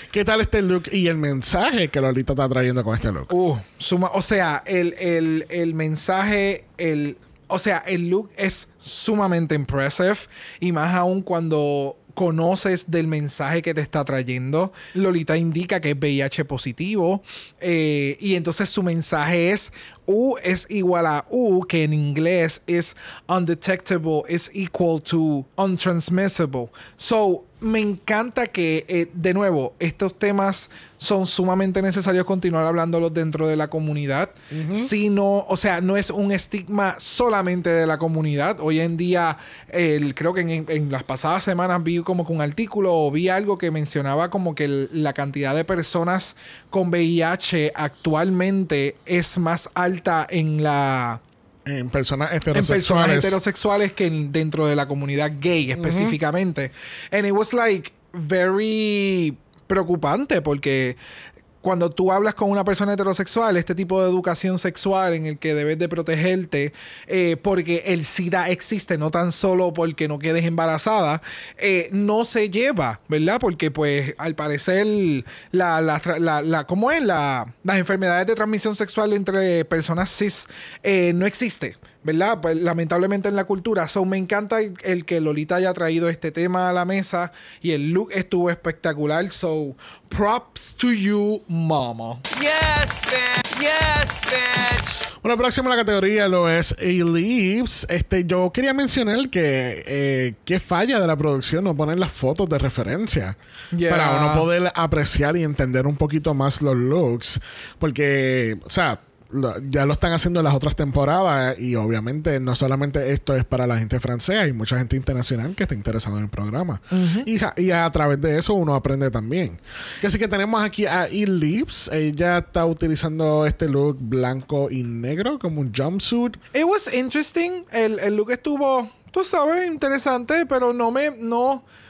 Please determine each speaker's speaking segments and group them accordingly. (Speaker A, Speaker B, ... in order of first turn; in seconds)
Speaker A: 0.1-3.3, 34.5-34.9, 51.6-53.4, 55.8-56.2, 95.2-103.3, 103.9-126.4
Speaker B: 3.3-51.2, 52.5-61.0, 61.6-92.2, 103.7-104.5, 116.9-117.3, 126.5-131.6
Speaker C: 92.3-94.9